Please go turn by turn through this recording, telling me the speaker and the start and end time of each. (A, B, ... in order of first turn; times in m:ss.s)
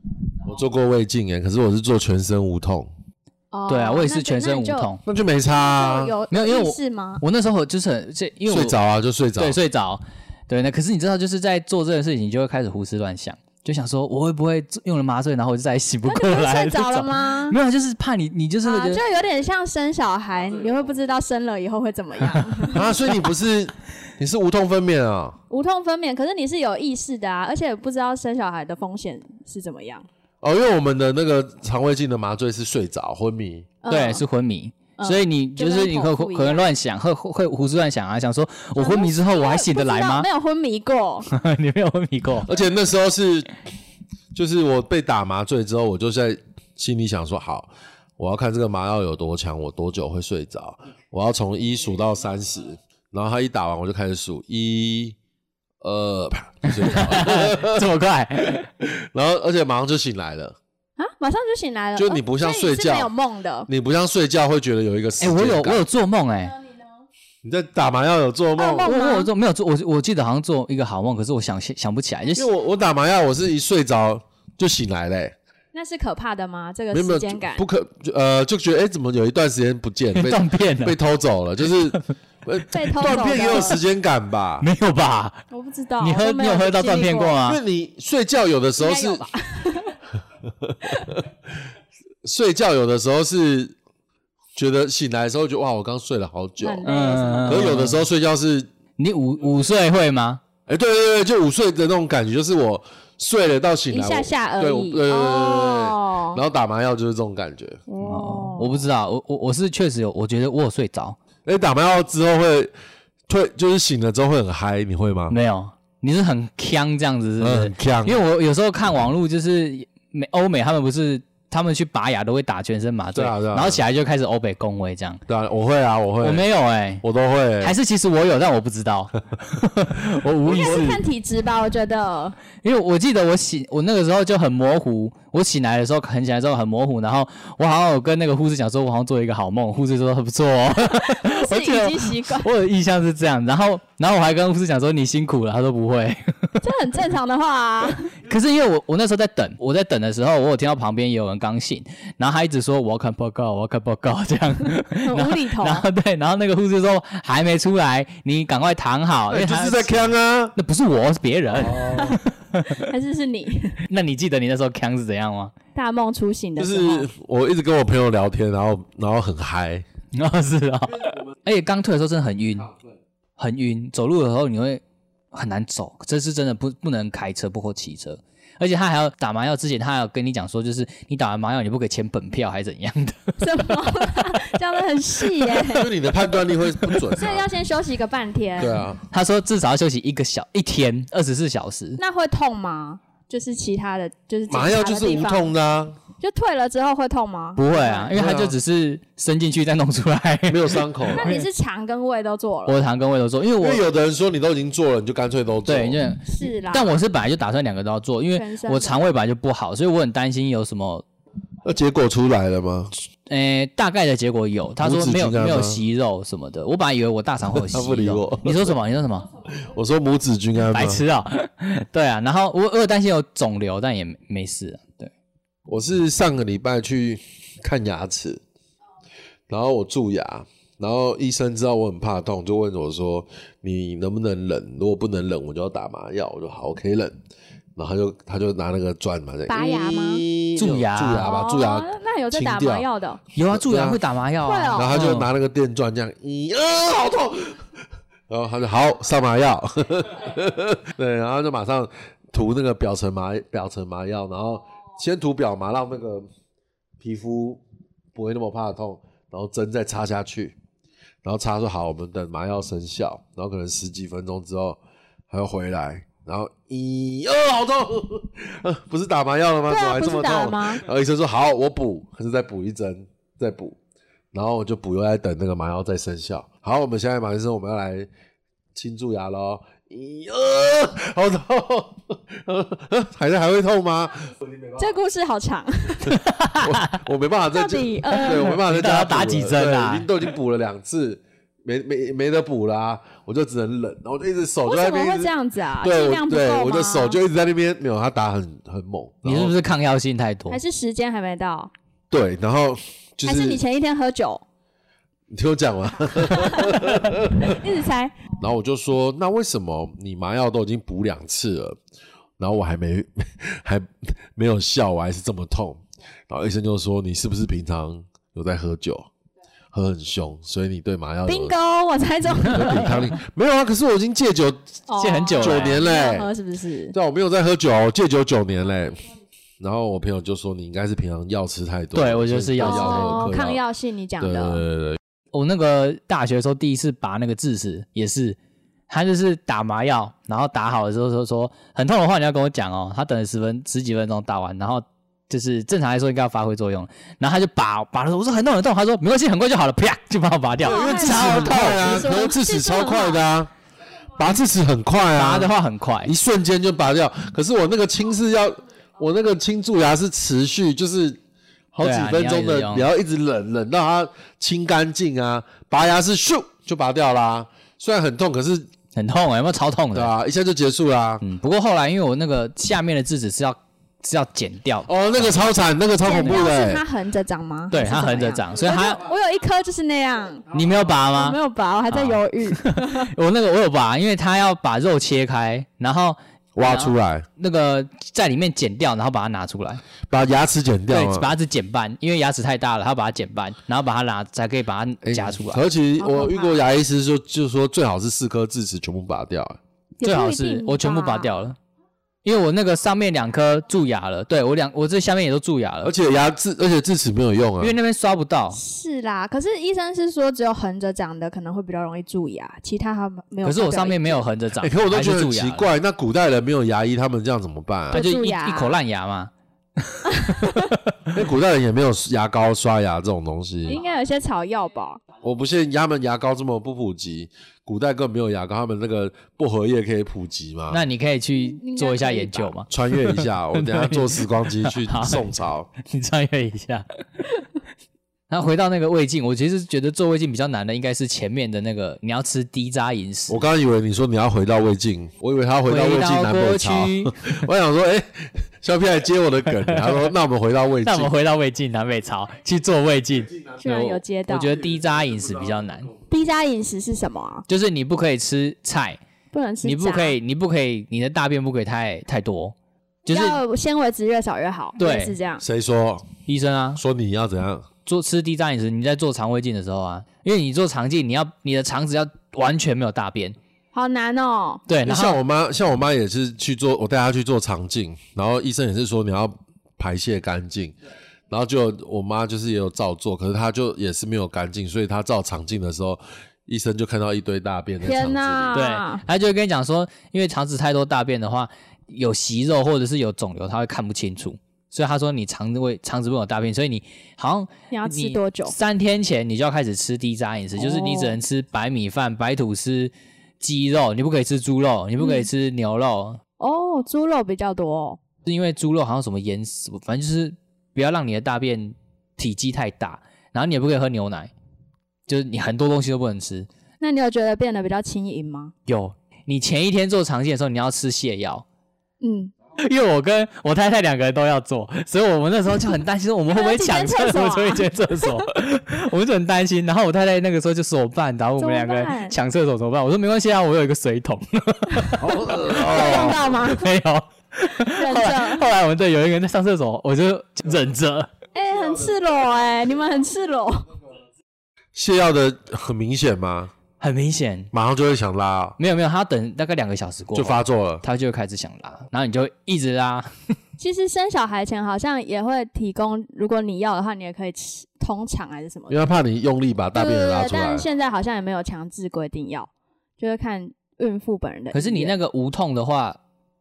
0:00.4-0:02.9 A
0:03.5-0:04.9 B
0:03.7-0:05.0 C
0:05.0-0:06.1 A
0:05.5-0:07.2 B
0:06.3-0:08.8 C
0:08.5-0:09.6 A
0:09.4-0:19.0 C
0:16.0-0:17.6 B
0:18.6-0:22.9 B
0:22.7-0:25.4 A
0:25.5-0:30.1 B
0:30.4-0:33.7 A
0:33.8-0:34.2 B
0:33.9-0:40.3 C
0:35.0-0:36.7 B
0:38.8-0:41.3 B
0:41.3-0:42.5 C
0:42.4-0:43.5 A
0:44.3-0:55.2 A
0:55.8-0:57.9 A
0:56.8-0:58.7 C
0:58.5-1:00.6 A
1:01.0-1:03.7 B
1:02.0-1:03.1 A
1:03.7-1:05.8 A
1:05.2-1:06.6 C
1:07.4-1:08.9 A
1:08.6-1:09.3 B
1:08.8-1:12.5 C
1:12.3-1:15.3 A
1:15.7-1:17.6 B
1:16.9-1:24.7 A
1:20.1-1:21.0 C
1:22.7-1:23.8 B
1:24.6-1:25.4 C
1:25.5-1:27.4 B
1:26.0-1:27.6 C
1:27.4-1:29.2 A
1:28.8-1:30.0 B
1:30.5-1:31.3 A
1:32.2-1:33.8 A
1:34.6-1:36.8 A
1:36.6-1:37.8 B
1:36.8-1:38.0 C
1:37.4-1:38.7 A
1:39.0-1:40.4 C
1:40.7-1:47.8 A
1:43.9-1:46.4 B
1:47.9-1:48.8 B
1:48.0-1:51.2 C
1:51.4-1:52.7 A
1:53.3-1:55.4 A
1:55.3-2:05.2 C
1:57.4-1:58.2 A
2:03.1-2:03.8 A
2:05.3-2:06.4 A
2:06.2-2:07.0 C
2:07.0-2:07.7 A
2:07.6-2:11.0 C
2:10.4-2:12.4 B
2:12.6-2:26.6 C
2:20.8-2:22.5 B
2:26.6-2:28.1 B
2:28.2-2:42.9 C
2:35.0-2:35.9 B
2:39.3-2:40.6 A
2:41.5-2:42.2 A
2:41.7-2:43.8 B
2:43.9-2:45.5 C
2:45.7-2:47.1 B
2:46.6-2:49.8 A
2:50.1-2:52.7 C
2:53.4-3:03.4 C
3:03.4-3:05.9 B
3:05.6-3:07.5 A
3:07.2-3:08.8 B
3:08.6-3:09.0 A
3:09.1-3:12.0 C
3:12.0-3:15.5 B
3:14.5-3:16.0 A
3:16.2-3:18.1 B
3:17.6-3:21.5 C
3:18.1-3:18.5 A
3:20.5-3:21.3 A
3:21.1-3:22.8 B
3:22.6-3:23.8 C
3:23.6-3:26.0 A
3:25.6-3:31.0 C
3:26.2-3:27.0 B
3:28.3-3:29.0 B
3:31.6-3:32.9 A
3:33.3-3:39.3 C
3:34.8-3:35.8 A
3:37.5-3:38.8 A
3:39.6-3:41.0 A
3:40.6-3:45.1 C
3:45.7-3:48.4 A
3:49.5-3:57.1 A
3:57.8-4:02.8 A
3:59.5-4:00.2 B
4:00.6-4:01.3 C
4:01.2-4:03.2 B
4:03.3-4:05.3 C
4:03.5-4:04.0 A
4:04.4-4:05.0 B
4:04.7-4:07.6 A
4:08.3-4:16.3 A
4:17.0-4:17.6 A
4:18.1-4:20.6 A
4:21.2-4:24.8 A
4:25.3-4:33.8 A
4:29.7-4:30.8 B
4:34.3-4:38.1 A
4:38.7-4:44.3 A
4:44.8-4:46.2 B
4:46.1-4:46.8 C
4:46.6-4:59.5 A
4:47.5-4:48.5 B
4:48.2-4:50.1 C
4:54.6-4:57.2 B
4:59.2-5:00.6 C
5:00.5-5:01.7 B
5:02.1-5:03.6 A
5:03.2-5:04.4 B
5:05.3-5:07.6 A
5:06.2-5:08.1 B
5:08.4-5:11.8 A
5:12.4-5:19.1 A
5:19.7-5:21.5 A
5:21.3-5:22.9 B
5:22.4-5:24.8 A
5:24.9-5:26.9 B
5:25.0-5:25.8 C
5:25.4-5:26.3 A
5:26.9-5:29.0 A
5:29.6-5:33.6 A
5:31.9-5:33.4 C
5:32.6-5:34.6 B
5:34.2-5:35.0 A
5:35.3-5:38.4 C
5:38.9-5:52.1 C
5:50.6-5:53.2 B
5:50.6-5:53.5 A
5:54.2-5:55.5 A
5:55.1-5:56.1 C
5:56.0-6:01.2 A
6:01.7-6:08.7 A
6:01.8-6:02.9 C
6:08.9-6:10.1 C
6:09.9-6:11.2 A
6:11.2-6:15.4 C
6:14.9-6:16.8 A
6:16.0-6:20.5 B
6:17.7-6:19.0 C
6:20.5-6:21.4 C
6:21.1-6:23.1 B
6:21.9-6:29.8 C
6:26.5-6:27.3 A
6:30.1-6:31.3 A
6:30.9-6:35.6 C
6:35.0-6:39.6 A
6:36.0-6:36.6 B
6:40.0-6:41.4 B
6:40.0-6:41.6 C
6:42.2-6:45.9 C
6:45.8-6:47.7 A
6:47.6-6:48.6 C
6:48.5-6:54.2 B
6:53.4-6:55.7 C
6:54.6-6:58.0 A
6:57.9-6:58.8 B
6:57.9-7:01.0 C
7:00.1-7:00.7 B
7:01.1-7:03.8 A
7:03.7-7:05.0 B
7:05.2-7:10.8 A
7:10.7-7:15.2 C
7:11.3-7:12.5 B
7:12.7-7:15.7 A
7:15.8-7:16.8 C
7:18.3-7:23.4 C
7:23.3-7:31.1 A
7:25.7-7:27.3 C
7:29.6-7:30.1 C
7:30.8-7:35.9 C
7:33.6-7:34.5 B
7:36.1-7:37.4 B
7:37.5-7:39.0 C
7:39.3-7:40.2 B
7:39.6-7:43.4 C
7:43.1-7:45.4 B
7:44.8-7:45.2 C
7:45.4-7:46.1 A
7:46.3-7:46.8 C
7:46.8-7:47.7 A
7:47.8-7:53.4 C
7:53.7-7:54.6 B
7:54.7-7:55.2 C
7:54.8-8:00.7 A
8:01.3-8:08.6 A
8:07.8-8:09.0 B
8:08.5-8:26.2 C
8:17.7-8:18.6 B
8:20.6-8:21.2 B
8:25.0-8:25.3 B
8:26.4-8:28.0 B
8:28.2-8:34.3 C
8:35.1-8:36.5 C
8:36.8-8:38.5 B
8:38.7-8:41.4 C
8:42.0-8:42.3 B
8:42.6-9:01.1 C
8:46.3-8:48.3 B
8:51.4-8:52.2 B
8:55.0-8:56.3 A
8:55.5-8:56.7 B
8:57.7-8:58.5 B
9:01.3-9:03.7 B
9:04.7-9:06.5 A
9:06.8-9:07.5 C
9:07.5-9:08.6 A
9:08.6-9:13.1 C
9:10.1-9:10.8 A
9:13.6-9:18.8 B
9:18.7-9:20.6 A
9:19.7-9:24.9 B
9:24.5-9:26.0 C